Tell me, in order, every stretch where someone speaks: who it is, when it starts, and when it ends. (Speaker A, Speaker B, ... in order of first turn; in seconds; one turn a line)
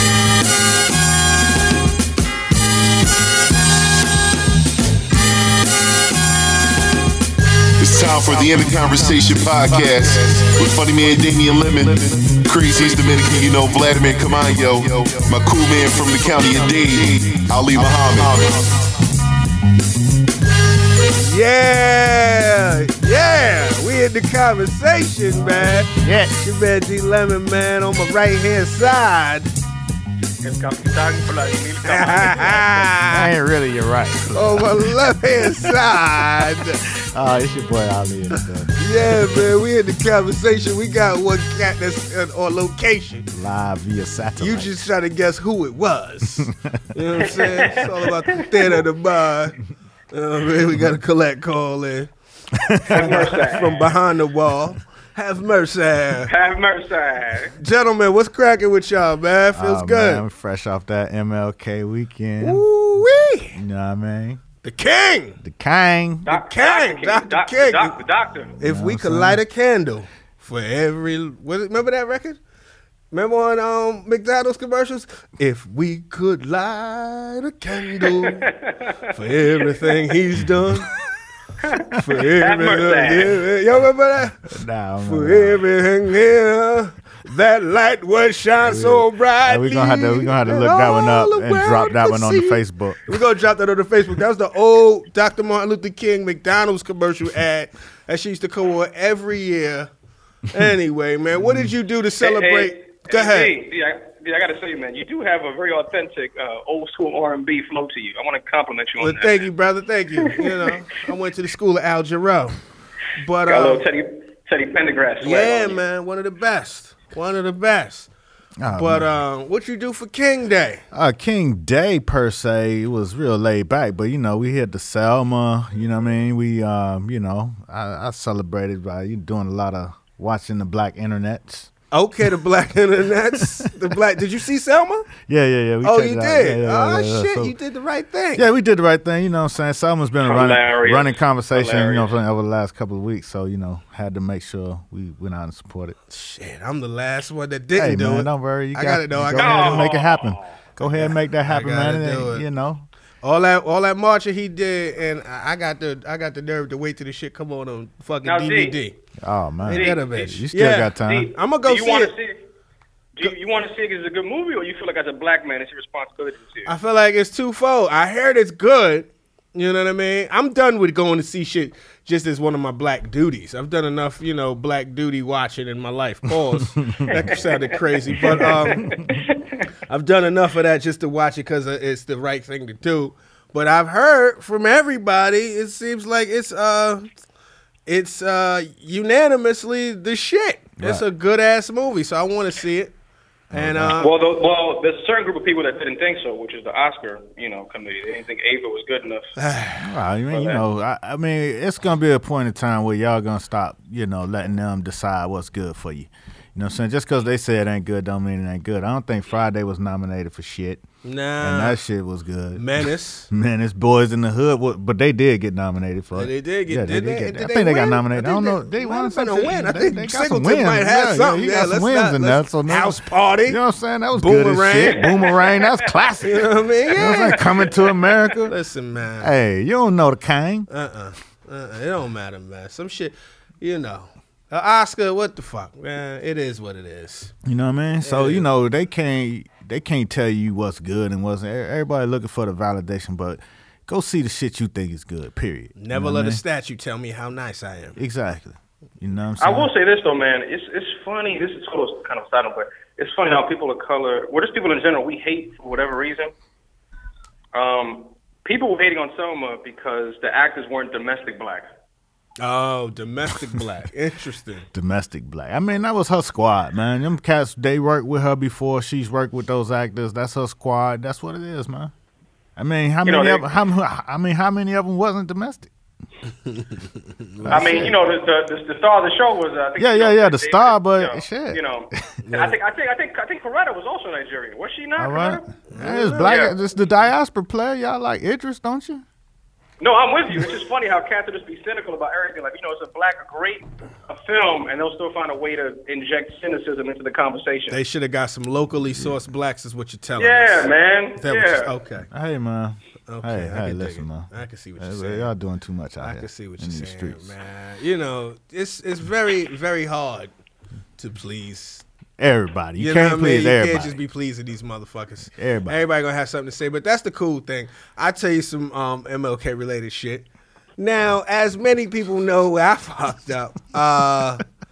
Speaker A: 7.8-18.6
Speaker B: 21.1-29.5
Speaker C: 25.3-26.4
Speaker D: 30.4-32.9
Speaker B: 31.8-33.3
Speaker C: 33.1-39.4
Speaker B: 34.3-36.8
Speaker B: 38.7-43.3
Speaker C: 43.3-44.7
Speaker B: 44.4-49.6
Speaker C: 46.4-46.7
Speaker D: 47.4-48.4
Speaker B: 50.1-52.1
Speaker C: 52.6-53.8
Speaker B: 52.8-56.3
Speaker D: 52.9-53.9
Speaker D: 56.2-57.5
Speaker B: 57.6-60.2
Speaker C: 59.5-62.6
Speaker B: 62.4-63.6
Speaker C: 63.5-64.4
Speaker B: 64.6-65.4
Speaker C: 65.4-66.3
Speaker D: 66.2-68.5
Speaker B: 66.3-68.0
Speaker C: 68.5-69.4
Speaker B: 68.6-72.4
Speaker B: 73.1-78.5
Speaker D: 78.1-79.1
Speaker B: 79.1-80.9
Speaker D: 81.6-83.4
Speaker B: 81.9-99.9
Speaker C: 84.4-85.7
Speaker C: 88.6-93.1
Speaker B: 100.5-103.5
Speaker C: 101.3-101.7
Speaker D: 102.2-109.4
Speaker B: 109.0-112.6
Speaker D: 110.2-110.7
Speaker B: 113.2-113.8
Speaker D: 113.4-115.8
Speaker B: 115.2-118.1
Speaker C: 118.6-119.1
Speaker B: 118.7-120.8
Speaker C: 120.9-131.7
Speaker B: 131.9-135.1
Speaker C: 133.4-133.7
Speaker C: 135.2-137.5
Speaker B: 135.8-138.4
Speaker C: 138.3-145.9
Speaker D: 140.2-142.1
Speaker B: 146.1-149.9
Speaker C: 147.8-152.8
Speaker D: 149.3-150.4
Speaker B: 150.9-152.4
Speaker B: 153.2-159.0
Speaker D: 158.2-158.8
Speaker C: 159.2-161.3
Speaker B: 159.6-162.1
Speaker D: 159.7-160.2
Speaker D: 161.0-162.4
Speaker D: 163.2-166.7
Speaker B: 166.7-178.9
Speaker D: 178.3-179.6
Speaker C: 178.8-179.1
Speaker B: 179.9-187.1
Speaker B: 187.9-192.9
Speaker C: 190.8-191.0
Speaker C: 193.5-194.0
Speaker B: 193.5-194.1
Speaker D: 194.0-199.3
Speaker B: 199.3-199.9
Speaker C: 199.8-210.8
Speaker D: 200.3-200.6
Speaker B: 211.0-211.8
Speaker C: 211.4-228.5
Speaker B: 212.5-213.3
Speaker B: 216.1-223.6
Speaker B: 224.1-225.1
Speaker D: 225.0-225.8
Speaker B: 226.2-227.5
Speaker D: 227.1-228.3
Speaker B: 228.4-229.3
Speaker C: 229.2-230.7
Speaker B: 230.7-237.3
Speaker C: 237.4-246.4
Speaker B: 238.0-238.4
Speaker B: 245.8-248.0
Speaker C: 248.0-249.7
Speaker D: 249.4-256.3
Speaker D: 257.5-261.7
Speaker B: 262.4-264.7
Speaker C: 264.7-271.9
Speaker C: 272.6-275.7
Speaker D: 273.0-273.4
Speaker B: 276.4-277.9
Speaker C: 277.4-278.0
Speaker D: 277.5-285.5
Speaker C: 279.8-282.0
Speaker B: 282.2-282.6
Speaker C: 285.0-289.0
Speaker B: 285.7-286.4
Speaker D: 286.2-286.6
Speaker D: 289.8-297.8
Speaker B: 297.7-302.1
Speaker D: 300.2-301.7
Speaker C: 302.1-304.3
Speaker B: 303.1-305.3
Speaker C: 304.8-307.3
Speaker B: 306.0-310.3
Speaker B: 311.0-311.8
Speaker C: 312.2-314.0
Speaker B: 312.8-320.2
Speaker C: 315.4-315.8
Speaker B: 320.8-324.4